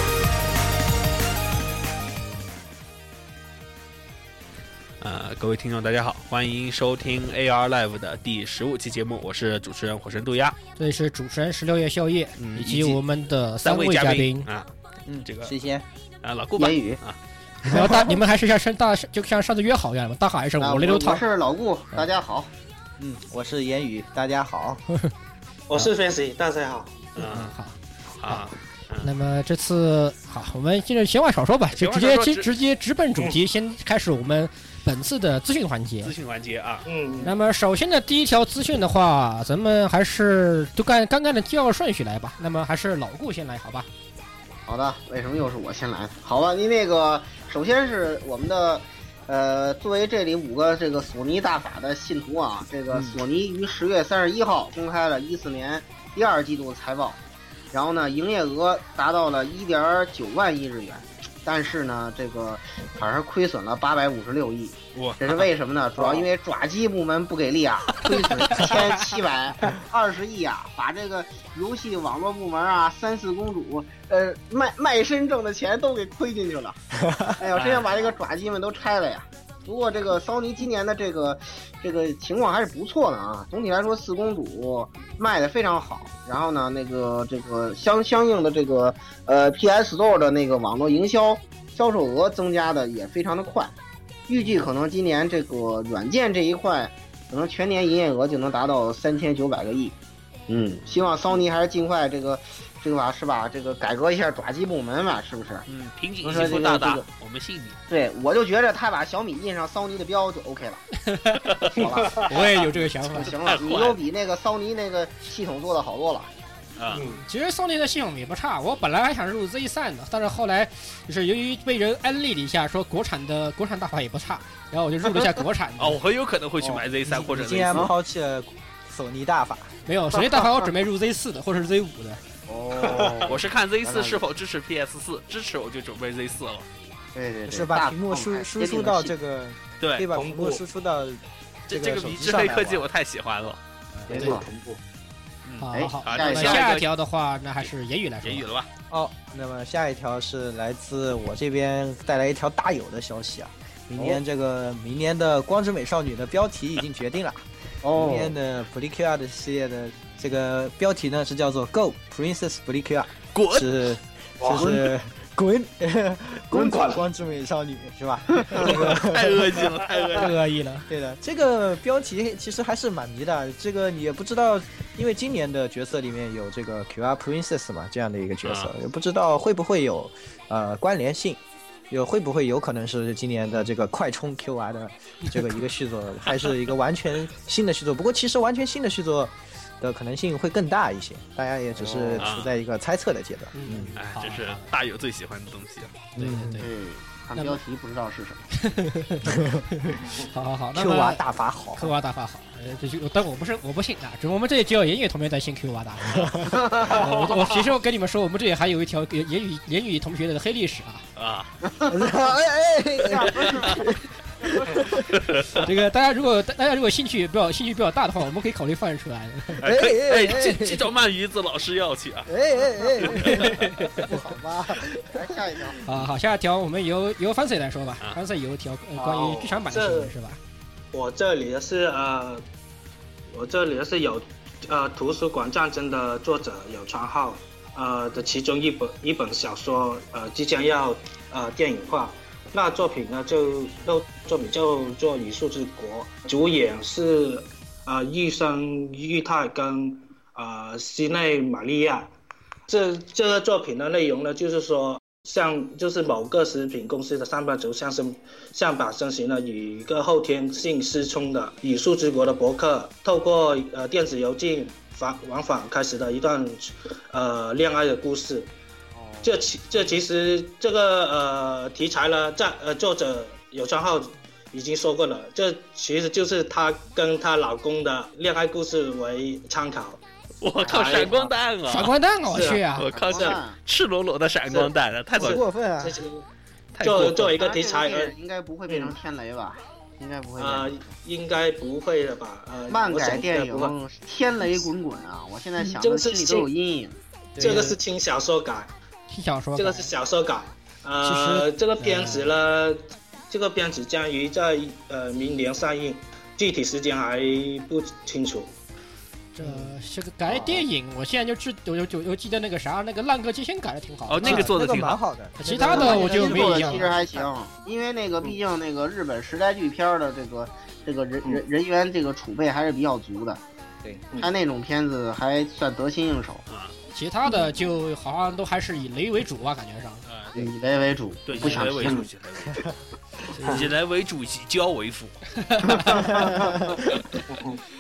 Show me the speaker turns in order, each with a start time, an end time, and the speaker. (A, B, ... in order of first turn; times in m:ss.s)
0:05.0-0:10.6 A
0:10.8-0:14.5 B
0:12.4-0:13.0 A
0:13.6-0:14.7 A
0:15.1-0:15.8 C
0:15.2-0:15.5 A
0:16.2-0:17.2 A
0:16.6-0:17.0 D
0:17.6-0:21.2 B
0:20.6-0:22.5 D
0:23.0-0:24.8 C
0:25.7-0:26.9 E
0:27.2-0:27.5 A
0:27.2-0:28.5 B
0:28.2-0:29.1 A
0:29.0-0:36.1 B
0:31.7-0:32.5 A
0:36.0-0:36.9 A
0:36.9-0:37.3 E
0:37.2-0:43.9 B
0:44.7-0:57.2 D
0:52.9-0:53.2 C
0:57.7-1:16.8 D
1:05.0-1:05.5 A
1:08.5-1:08.8 A
1:17.0-1:17.4 C
1:17.4-1:33.7 D
1:17.6-1:17.8 A
1:34.3-1:40.0 D
1:40.5-1:45.7 D
1:45.7-1:47.8 A
1:46.2-1:47.0 D
1:47.9-1:50.8 D
1:51.1-1:51.5 B
1:51.5-1:51.8 A
1:51.7-1:56.3 D
1:52.1-1:53.3 B
1:53.4-1:54.0 A
1:56.8-1:57.1 A
1:56.9-1:57.2 E
1:57.3-2:06.0 B
2:05.8-2:07.9 A
2:07.0-2:09.7 C
2:09.9-2:12.2 B
2:12.5-2:14.2 D
2:12.8-2:13.3 E
2:13.3-2:16.7 A
2:17.2-2:19.1 D
2:17.5-2:22.8 C
2:19.8-2:20.1 A
2:20.2-2:20.6 E
2:21.7-2:23.6 A
2:24.1-2:24.5 D
2:24.1-2:24.8 E
2:24.1-2:24.4 B
2:25.5-2:26.9 A
2:25.6-2:28.5 B
2:25.7-2:26.7 D
2:28.2-2:28.7 A
2:28.9-2:49.6 C
2:37.8-2:38.3 D
2:43.3-2:43.8 A
2:44.4-2:44.9 E
2:46.5-2:47.0 E
2:48.7-2:50.4 A
2:50.0-2:50.3 E
2:50.2-2:50.9 B
2:50.9-3:01.4 C
2:58.4-2:58.7 A
3:01.9-3:13.9 C
3:11.9-3:12.2 E
3:12.2-3:12.5 A
3:13.5-3:14.7 B
3:14.0-3:16.0 A
3:16.2-3:16.6 C
3:16.2-3:16.7 B
3:16.6-3:18.5 D
3:18.6-3:21.2 B
3:19.3-3:19.6 C
3:20.7-3:21.9 C
3:21.8-3:31.1 B
3:26.2-3:26.5 C
3:26.6-3:26.9 D
3:26.8-3:27.4 E
3:31.2-3:31.5 A
3:31.7-3:32.0 D
3:31.9-3:33.9 C
3:33.1-3:35.0 D
3:35.1-3:35.5 A
3:35.5-3:39.6 B
3:39.6-3:42.3 A
3:39.6-3:40.9 C
3:42.3-3:45.4 C
3:43.0-3:43.5 A
3:43.2-3:44.1 B
3:44.9-3:45.8 D
3:45.8-3:50.4 B
3:49.0-3:50.1 E
3:50.9-3:52.4 E
3:53.3-4:12.1 E
4:12.7-4:28.5 E
4:29.0-4:29.4 D
4:29.2-4:40.0 E
4:40.4-4:41.9 A
4:40.6-4:41.3 E
4:41.7-4:42.9 B
4:42.3-4:43.4 E
4:42.8-4:45.4 A
4:42.9-4:43.6 D
4:44.5-4:46.2 E
4:45.2-4:46.0 C
4:46.7-4:47.3 A
4:46.8-4:48.1 E
4:47.3-4:50.9 D
4:48.7-4:48.9 E
4:50.4-4:53.8 E
4:52.7-4:57.0 D
4:55.6-4:56.5 E
4:57.4-4:57.8 C
4:57.4-4:58.7 E
4:59.1-4:59.9 B
4:59.6-5:08.5 E
5:01.0-5:02.3 B
5:09.3-5:14.5 B
5:10.3-5:10.6 C
5:14.1-5:15.0 A
5:14.2-5:17.3 C
5:15.4-5:16.9 B
5:15.6-5:23.4 D
5:24.2-5:26.4 D
5:26.5-5:26.7 A
5:26.9-5:30.0 B
5:30.1-5:30.5 A
5:30.4-5:32.0 D
5:31.3-5:32.7 A
5:31.4-5:32.1 E
5:32.5-5:32.7 C
5:33.3-5:33.7 B
5:33.4-5:33.7 E
5:33.4-5:35.2 A
5:35.4-5:36.4 B
5:35.9-5:36.2 D
5:37.3-5:37.6 E